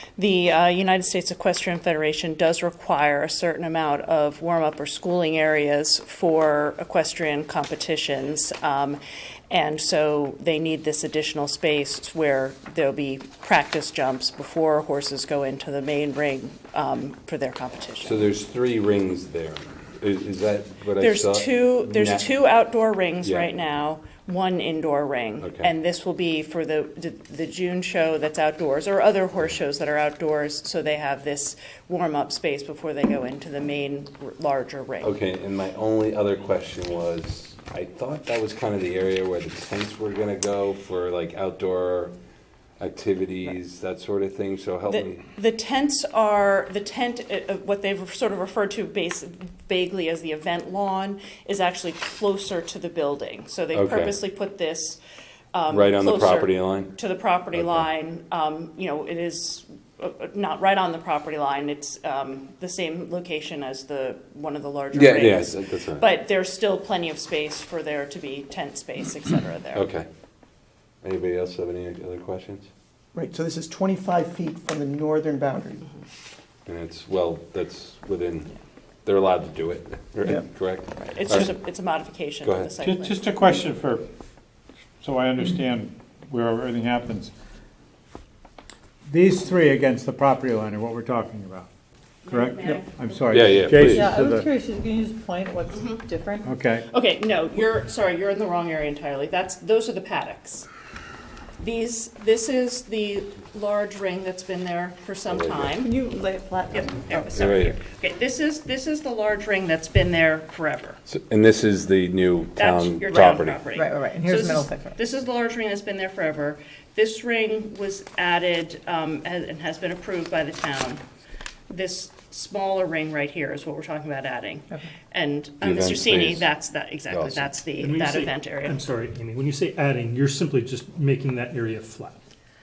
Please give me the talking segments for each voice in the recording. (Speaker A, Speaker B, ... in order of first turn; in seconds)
Speaker A: 0.2-18.3, 21.0-35.1, 44.9-55.0, 55.5-69.9, 81.0-83.4, 92.2-93.8, 95.7-96.0, 96.9-100.7, 101.6-105.9, 106.7-111.0, 112.5-121.0, 121.7-128.8
Speaker B: 18.0-22.3, 25.4-25.7, 35.0-42.1, 42.8-45.2, 53.7-54.2, 55.7-56.9, 57.5-57.8, 64.9-66.1, 69.7-70.0, 71.0-72.7, 76.7-78.5, 79.0-81.6, 82.4-82.7, 93.3-94.2, 105.3-105.7, 107.3-107.8, 111.1-113.6, 125.6-126.5, 127.1-127.5
Speaker C: 73.1-75.9
Speaker D: 82.8-84.0, 85.0-87.3, 89.0-91.7, 92.3-94.5, 96.4-96.9
Speaker E: 93.8-96.5, 105.8-107.3, 113.7-114.9
Speaker F: 127.8-132.2